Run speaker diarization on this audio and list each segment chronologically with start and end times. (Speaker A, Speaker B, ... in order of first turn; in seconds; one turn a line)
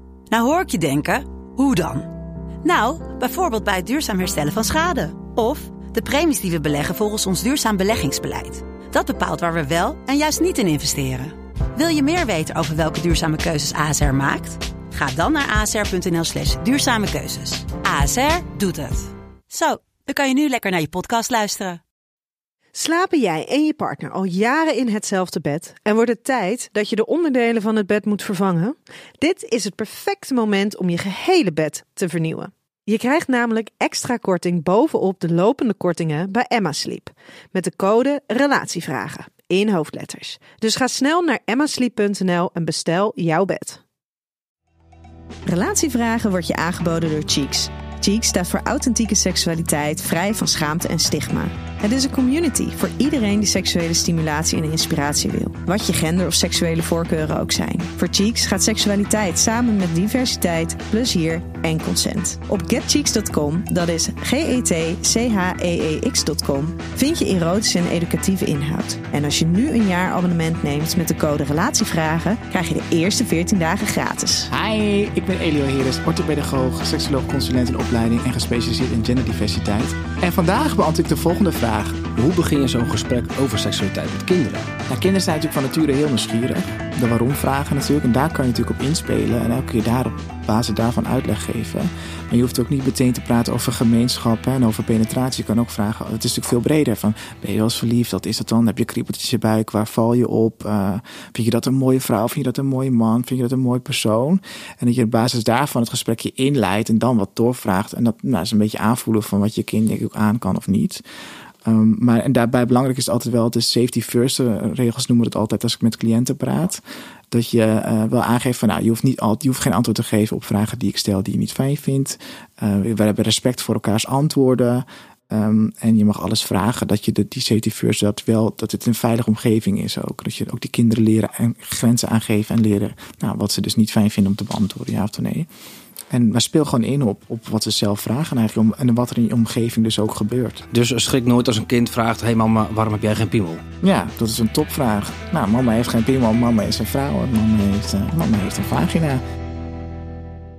Speaker A: 0.3-2.1
Speaker A: 2.6-21.8
Speaker B: 22.7-43.8
Speaker B: 45.5-74.5
Speaker C: 74.5-82.1
Speaker D: 82.2-84.7
Speaker C: 84.9-111.0
Speaker C: 111.7-135.5
Speaker C: 136.1-140.6
Speaker D: 140.7-143.6
Speaker C: 143.8-149.2